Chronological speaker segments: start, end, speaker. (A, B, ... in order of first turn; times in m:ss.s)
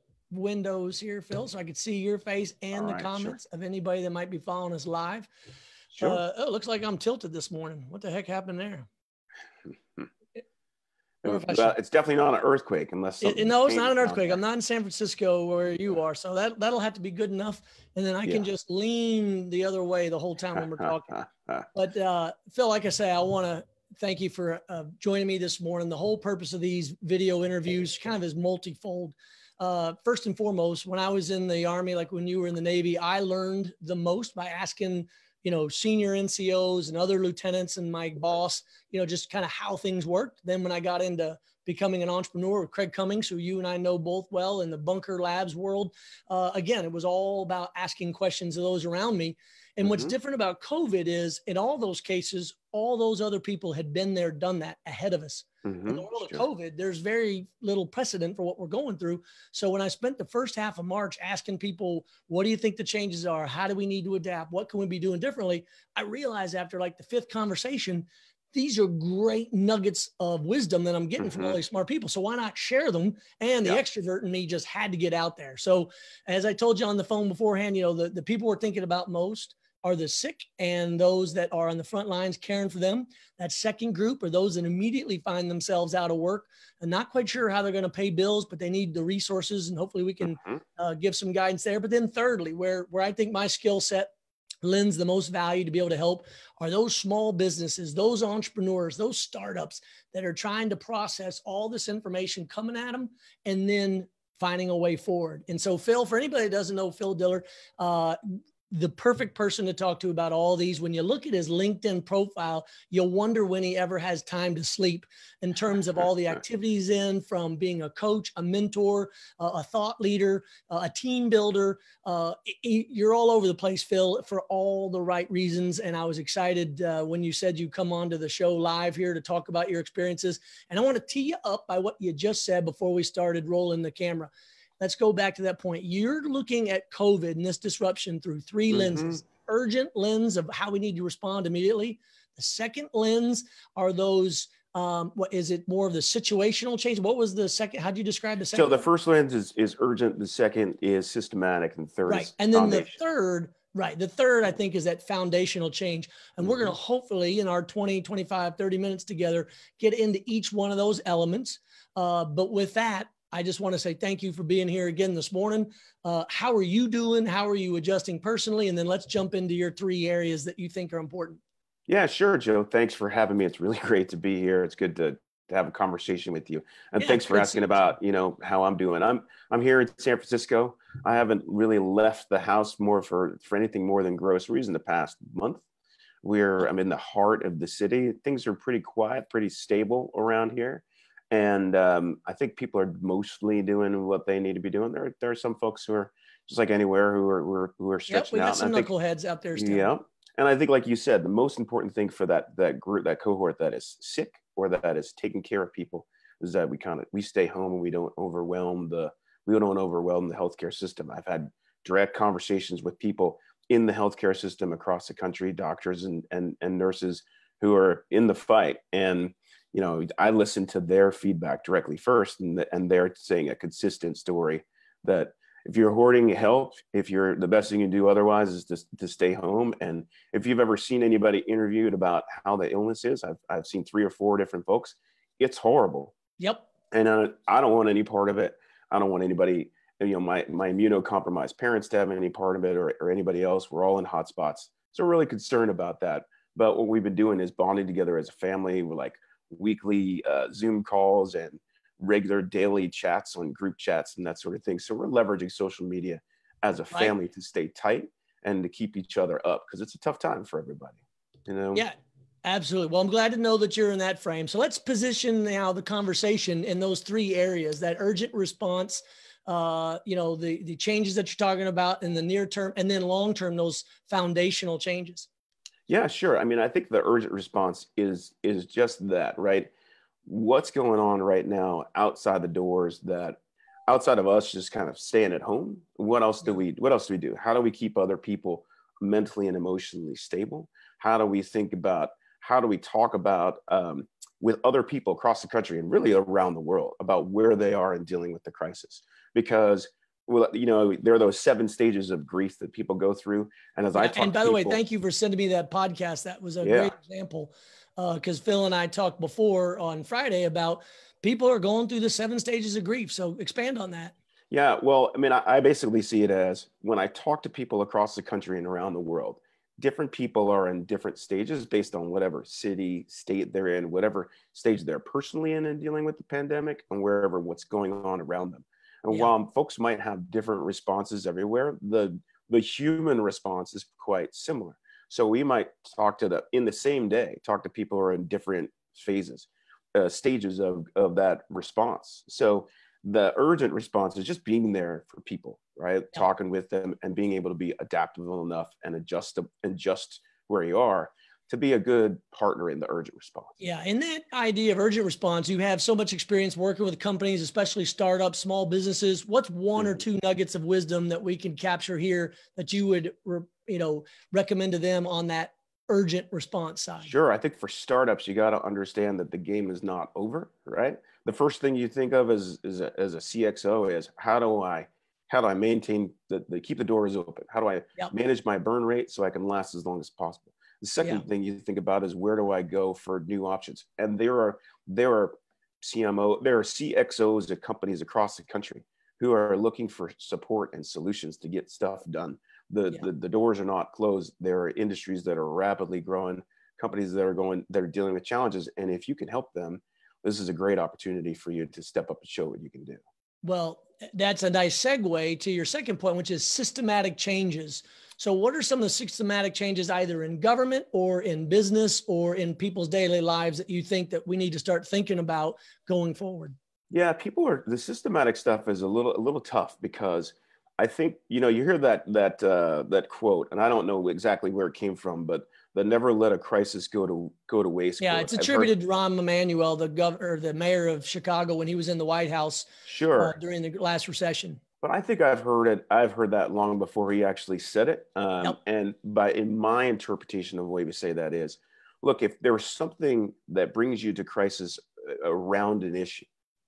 0:00.3-0:05.3 A
0:02.7-0:03.4 B
0:05.9-0:06.2 B
0:06.0-0:08.9 A
0:11.2-0:14.4 B
0:11.2-0:11.7 A
0:13.2-0:21.2 A
0:20.6-0:21.7 B
0:21.7-1:34.1 A
0:49.8-0:50.1 B
0:55.6-0:56.4 B
1:11.2-1:11.6 B
1:30.2-1:30.6 B
1:34.6-2:28.8 A
2:18.7-2:19.2 B
2:28.5-2:33.0 B
2:32.1-2:51.4 A
2:36.4-2:36.7 B
2:51.9-3:05.6 B
2:57.0-2:57.9 A
3:06.2-3:18.9 B
3:18.1-3:19.9 A
3:19.6-3:56.1 B
3:56.4-3:56.7 A
3:56.9-4:21.8 B
4:21.7-4:35.3 A
4:35.9-4:39.7 B
4:40.2-5:04.8 B
5:04.0-5:14.1 A
5:06.6-5:06.9 B
5:14.5-5:53.5 B
5:53.6-6:07.1 A
6:07.0-6:43.0 B
6:43.4-6:56.6 A
6:56.9-7:08.7 B
7:08.0-7:14.6 A
7:12.9-7:13.4 B
7:14.8-7:26.3 B